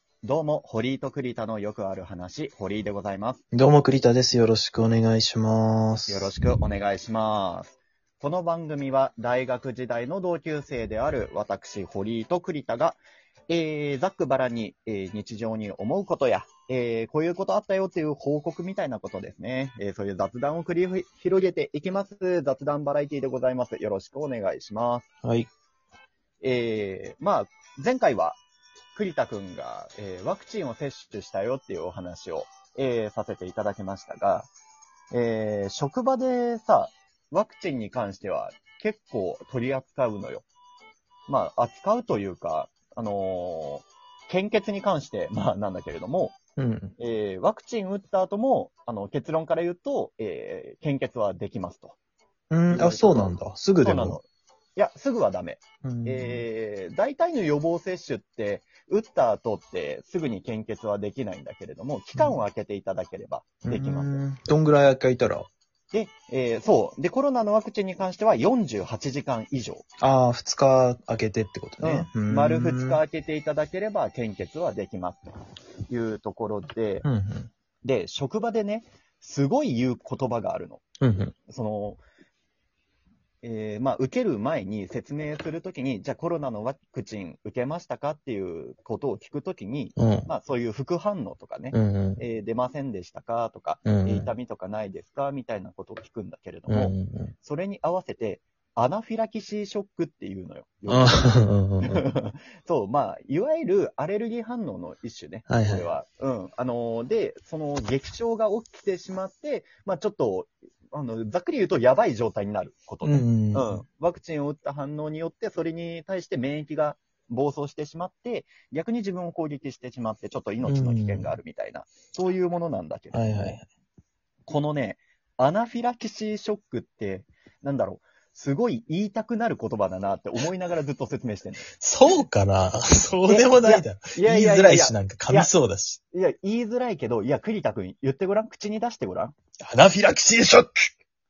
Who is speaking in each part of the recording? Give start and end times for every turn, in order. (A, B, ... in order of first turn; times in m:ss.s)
0:00.2-0:03.4 A
0:03.5-0:06.3 B
0:06.1-0:25.1 A
0:25.2-0:25.5 B
0:26.4-0:28.4 A
0:28.9-0:34.5 A
0:35.1-0:40.4 A
0:41.3-0:46.4 A
0:46.6-0:46.9 B
0:47.0-0:52.0 A
0:52.5-0:54.2 B
0:52.7-0:54.2 A
0:54.8-1:04.2 A
0:55.8-0:56.4 B
1:03.6-1:05.5 B
1:05.9-1:09.8 A
1:10.0-1:13.0 B
1:11.8-1:15.3 A
1:15.9-1:17.0 A
1:17.0-1:17.5 B
1:17.8-1:20.8 A
1:21.0-1:21.3 B
1:21.5-1:22.0 A
1:23.4-2:03.6 A
1:30.0-1:30.3 B
1:31.7-1:32.2 B
1:33.8-1:34.3 B
1:36.7-1:37.3 B
1:40.9-1:42.0 B
1:45.5-1:45.9 B
1:53.0-1:53.8 B
2:00.6-2:01.3 B
2:03.1-2:03.6 B
2:04.4-2:11.7 A
2:11.8-2:16.0 B
2:13.3-2:15.5 A
2:16.1-2:19.3 A
2:19.6-2:20.9 B